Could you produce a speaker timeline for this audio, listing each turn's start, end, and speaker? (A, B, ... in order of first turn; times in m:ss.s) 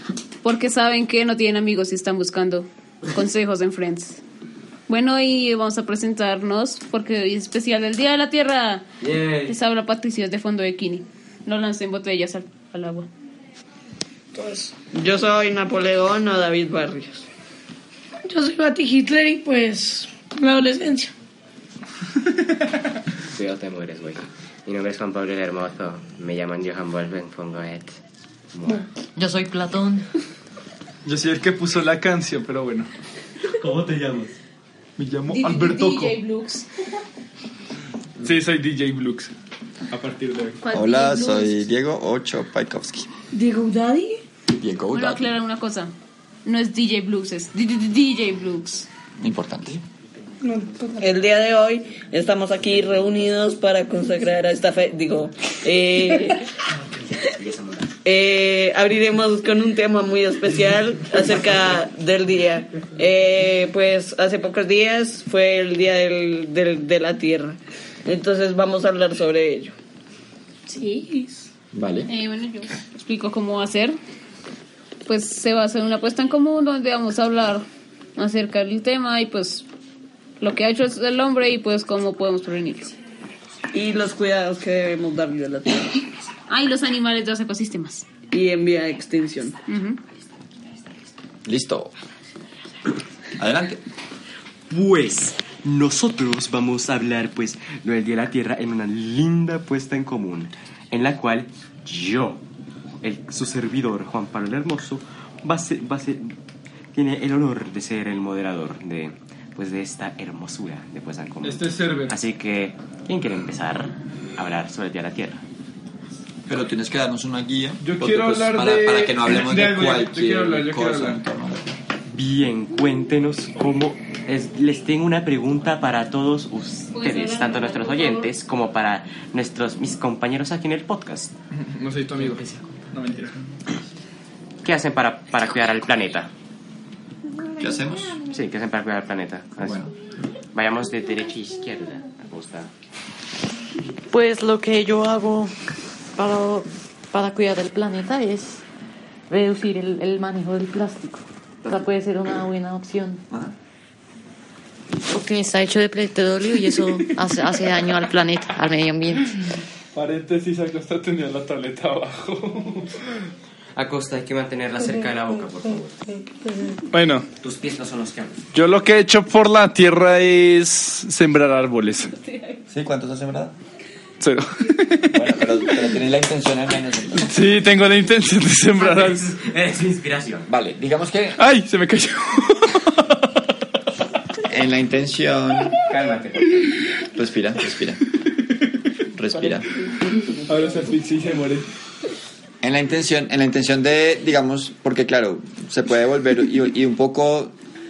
0:00.4-0:04.2 A
0:04.9-0:13.1 A
0:09.0-0:09.5 B
0:14.3-0:14.7 C
0:14.9-0:17.2 D
0:18.3-0:21.1 C
0:23.3-0:28.0 B
0:28.5-0:28.8 B
0:29.2-0:30.1 E
0:31.0-0:32.9 F
0:33.6-0:34.3 B
0:35.0-0:36.1 F
0:35.3-0:36.6 A
0:38.2-0:39.3 F
0:39.9-0:40.6 F
0:40.6-0:41.6 A
0:40.7-0:43.1 G
0:43.3-0:44.2 C
0:44.5-0:45.3 G
0:44.9-0:45.9 A
0:46.4-0:48.9 A
0:49.2-0:49.8 G
0:50.4-0:51.1 C
0:51.0-0:56.4 D
0:57.2-0:57.9 B
0:58.0-1:09.7 D
1:10.7-1:11.5 C
1:11.7-1:12.1 G
1:12.1-1:14.0 A
1:15.0-1:19.6 A
1:20.4-1:22.9 A
1:23.7-1:26.1 D
1:26.5-1:28.0 A
1:28.3-1:29.6 D
1:29.6-1:30.0 A
1:31.4-1:31.9 G
1:33.4-1:33.8 G
1:34.7-1:42.4 B
1:43.0-1:46.3 B
1:46.9-1:55.4 B
1:51.4-1:52.1 F
1:56.5-2:01.8 G
1:57.8-2:01.2 F
2:02.1-2:11.3 B
2:06.9-2:08.3 A
2:11.5-2:13.4 F
2:14.6-2:16.3 B
2:17.6-2:18.2 G
2:18.3-2:19.9 B
2:19.6-2:19.9 G
2:20.5-2:22.7 B
2:24.1-2:25.5 E
2:26.1-2:28.6 E
2:29.3-2:33.2 E
2:35.1-2:39.4 E
2:39.9-2:43.2 F
2:43.8-2:46.0 B
2:46.2-2:46.8 C
2:46.9-2:47.3 F
2:47.4-2:48.4 B
2:48.5-2:52.1 F
2:52.1-2:52.6 A
2:52.7-2:53.6 G
2:54.2-2:55.3 F
2:55.1-2:57.3 G
2:57.2-2:59.4 F
2:58.8-3:00.5 B
3:00.5-3:01.4 G
3:01.4-3:03.4 F
3:04.4-3:05.8 G
3:05.8-3:06.7 B
3:07.1-3:08.0 G
3:09.1-3:09.7 G
3:10.4-3:10.9 D
3:10.4-3:11.7 F
3:12.6-3:17.5 G